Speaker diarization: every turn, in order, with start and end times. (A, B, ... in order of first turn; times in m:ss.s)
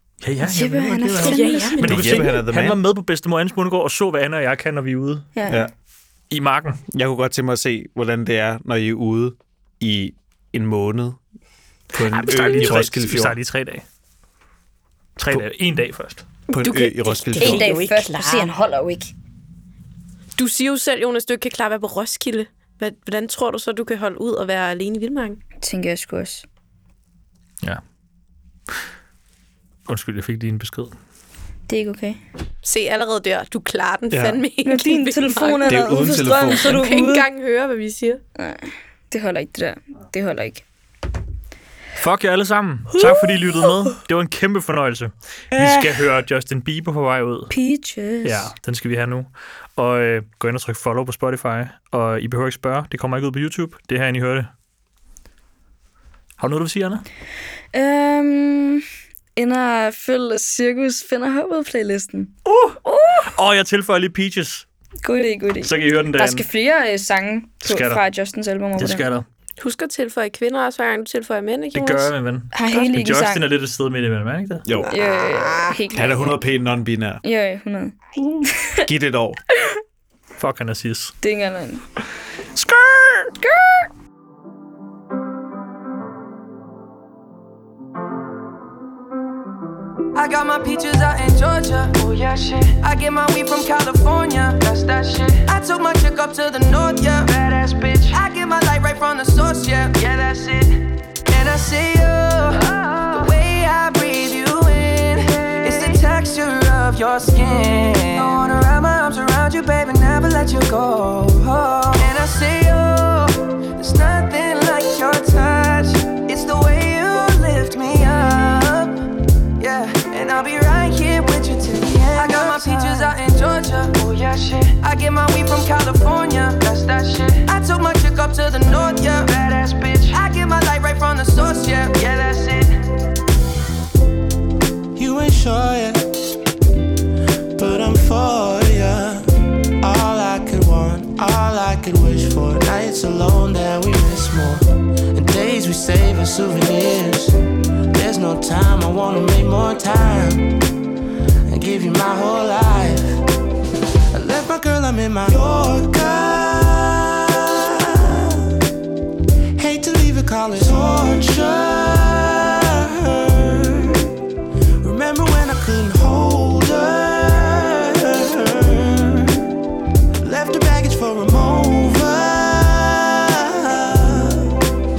0:00.2-0:05.3 A
0:00.4-0:01.8 B
0:01.1-0:02.4 C
0:01.8-0:02.8 D
0:05.3-0:05.6 B
0:06.3-0:06.8 A
0:06.9-0:11.2 D
0:11.9-0:13.3 D
0:12.1-0:13.8 A
0:15.2-0:16.2 A
0:16.5-0:18.5 C
0:16.5-0:17.8 D
0:17.4-0:19.1 B
0:20.3-0:25.4 C
0:25.6-0:26.4 B
0:29.9-0:30.9 A
0:31.7-0:32.2 B
0:32.6-0:38.2 C
0:34.1-0:34.4 D
0:34.6-0:37.2 B
0:35.7-0:36.8 D
0:38.4-0:40.6 B
0:42.0-0:47.5 A
0:43.0-0:43.9 B
0:45.5-0:46.0 B
0:47.5-0:48.5 B
0:48.2-0:54.5 A
0:56.4-0:57.0 A
0:57.7-0:58.8 B
0:59.4-1:03.3 B
1:02.4-1:02.8 A
1:03.3-1:04.6 A
1:05.0-1:09.0 B
1:05.6-1:06.4 A
1:07.6-1:08.0 A
1:08.8-1:09.2 A
1:09.6-1:12.1 C
1:11.7-1:14.6 A
1:12.5-1:13.4 B
1:14.6-1:15.0 D
1:14.8-1:15.8 C
1:14.8-1:16.4 B
1:15.9-1:17.2 D
1:17.2-1:18.0 B
1:18.6-1:18.8 B
1:18.8-1:19.4 D
1:20.4-1:21.2 A
1:21.2-1:21.8 B
1:22.5-1:23.3 A
1:23.4-1:23.9 B
1:30.1-1:59.0 E
1:59.6-2:12.8 E
2:15.0-2:16.0 F
2:17.6-2:27.4 F
2:27.9-2:30.5 F
2:31.5-2:33.2 F
2:34.1-2:38.4 F
2:39.6-2:44.1 F
2:44.8-2:49.5 F
2:50.2-2:54.5 F